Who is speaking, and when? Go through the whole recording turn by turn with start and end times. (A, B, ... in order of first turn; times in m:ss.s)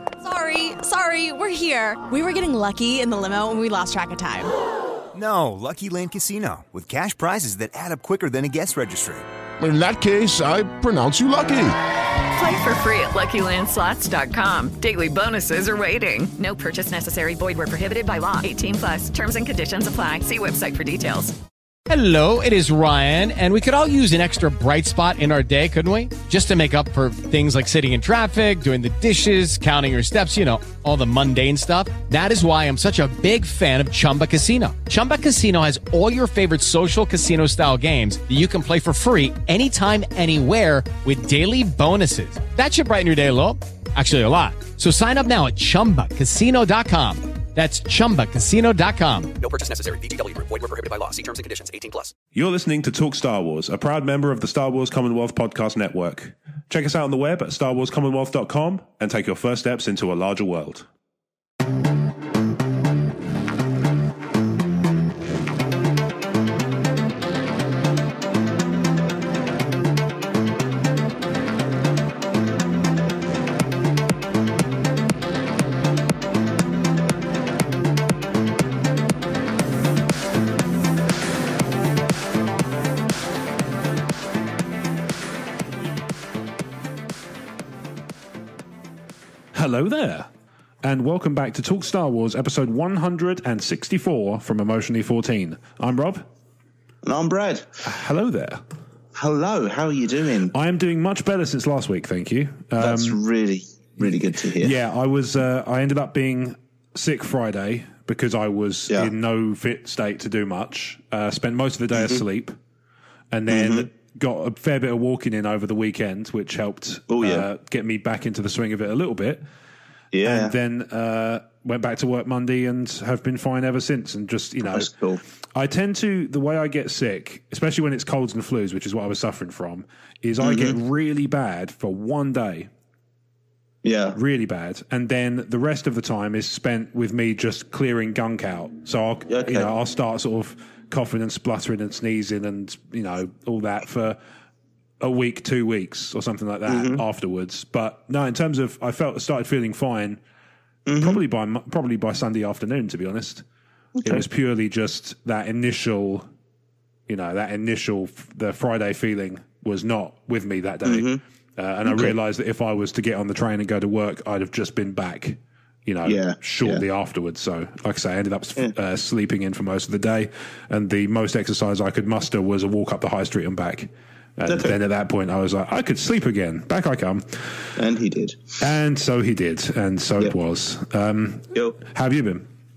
0:00.2-0:04.5 A
0:05.1-0:09.3 B
0:09.6-0:11.8 C
0:12.3-0:21.4 D
0:21.9-0:49.3 E
0:49.4-0:52.1 F
0:52.3-1:00.9 G
1:29.5-1:30.3 G
1:30.8-1:36.3 G
1:37.0-1:37.7 H
1:37.8-1:38.6 G
1:39.1-1:40.5 H
1:40.5-1:43.2 G
1:42.8-1:44.8 H
1:44.6-1:52.6 G
1:52.0-1:52.2 H
1:53.3-1:59.4 G
1:53.5-1:53.9 H
1:57.1-1:57.5 H
2:00.1-2:00.6 H
2:00.2-2:04.9 G
2:04.6-2:05.2 H
2:05.6-2:12.7 G
2:10.4-2:10.8 H
2:13.8-2:14.2 H
2:14.1-2:24.2 G
2:19.3-2:19.7 H
2:25.0-2:30.2 G
2:26.7-2:27.0 H
2:30.9-2:31.2 H
2:31.0-2:33.4 G
2:34.0-2:34.2 H
2:34.0-2:36.3 G
2:37.1-2:57.4 G
2:40.8-2:41.2 H
2:41.8-2:42.2 H
2:46.0-2:46.8 H
2:54.5-2:54.8 H
2:57.8-2:58.4 H
2:58.6-3:02.5 G